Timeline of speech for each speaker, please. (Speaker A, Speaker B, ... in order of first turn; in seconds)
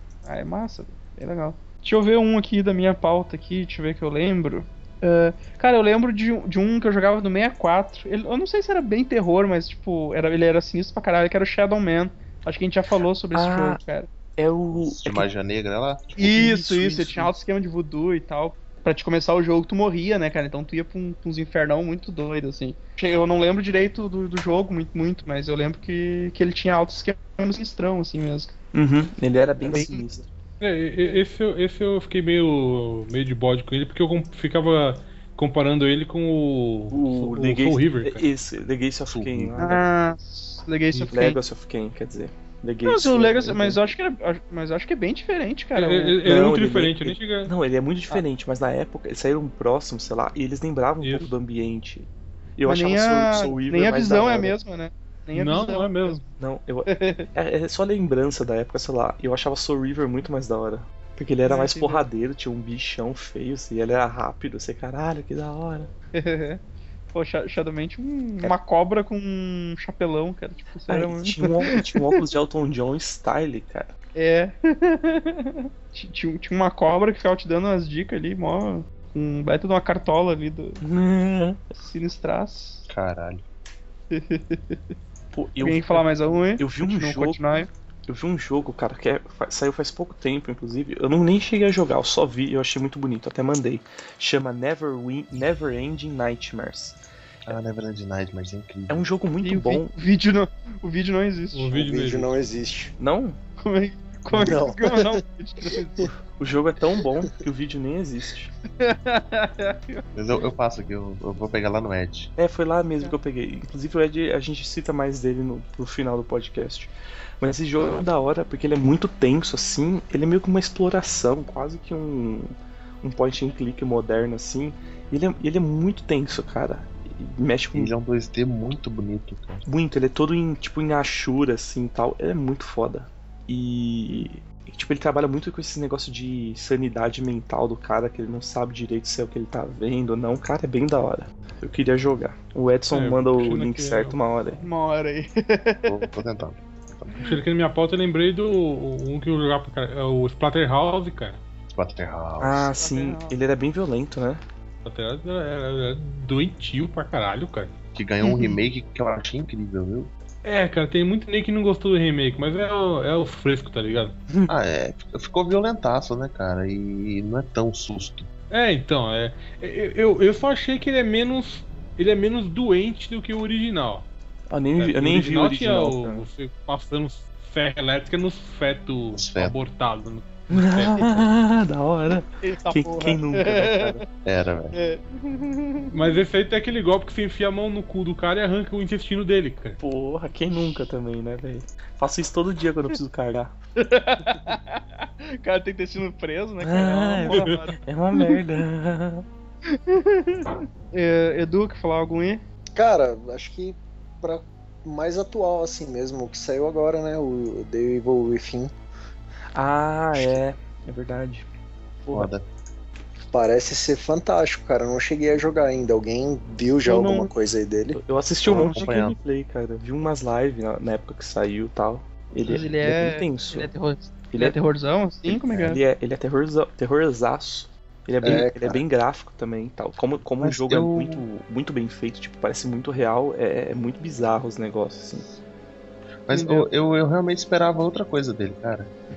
Speaker A: 0.2-14.1, 16.2-28.5, 29.6-30.0, 39.6-41.4, 42.8-46.2, 52.6-56.2, 56.9-57.3, 61.4-62.1, 66.1-66.6, 67.1-72.2, 74.2-80.8, 81.7-82.8, 84.1-84.8, 85.6-87.7, 99.4-101.7, 103.6-106.1, 108.8-110.0, 144.6-146.1, 152.8-153.3, 158.2-158.6, 182.4-184.0, 184.7-186.2, 193.8-198.4, 199.7-202.4, 216.9-217.3, 218.5-218.8, 222.4-225.8, 236.3-236.7
Speaker B: 13.3-13.8, 14.4-15.3, 16.2-17.4, 28.7-30.3, 36.9-39.9, 41.0-43.8, 46.2-54.6, 56.4-65.9, 70.9-73.9, 80.8-81.6, 85.3-87.4, 88.0-97.5, 98.9-99.9, 103.0-103.4, 106.3-108.5, 112.4-127.9, 129.6-144.6, 152.4-154.4, 174.5-176.3, 180.5-184.0, 189.8-193.6, 196.6-199.2, 209.5-211.4, 212.0-212.3, 217.9-223.7, 224.3-224.6, 225.2-235.3
Speaker C: 14.7-16.5, 39.1-39.6, 82.9-83.4, 97.5-99.1, 110.1-112.3, 127.7-129.6, 145.9-147.1, 151.7-152.7, 157.9-160.1, 164.5-168.3, 179.1-179.6, 184.2-184.7, 212.1-212.4, 218.4-219.2, 230.4-231.2, 236.3-238.9
Speaker D: 30.6-38.3, 45.8-47.5, 51.0-51.3, 55.3-56.2, 101.5-102.4, 142.9-144.2, 147.2-151.4, 154.8-157.7, 160.4-164.2, 168.5-174.1, 174.8-181.2, 185.9-189.8, 197.3-197.6
Speaker E: 101.7-102.9, 104.3-105.2, 202.8-208.7, 213.3-218.0, 228.2-228.8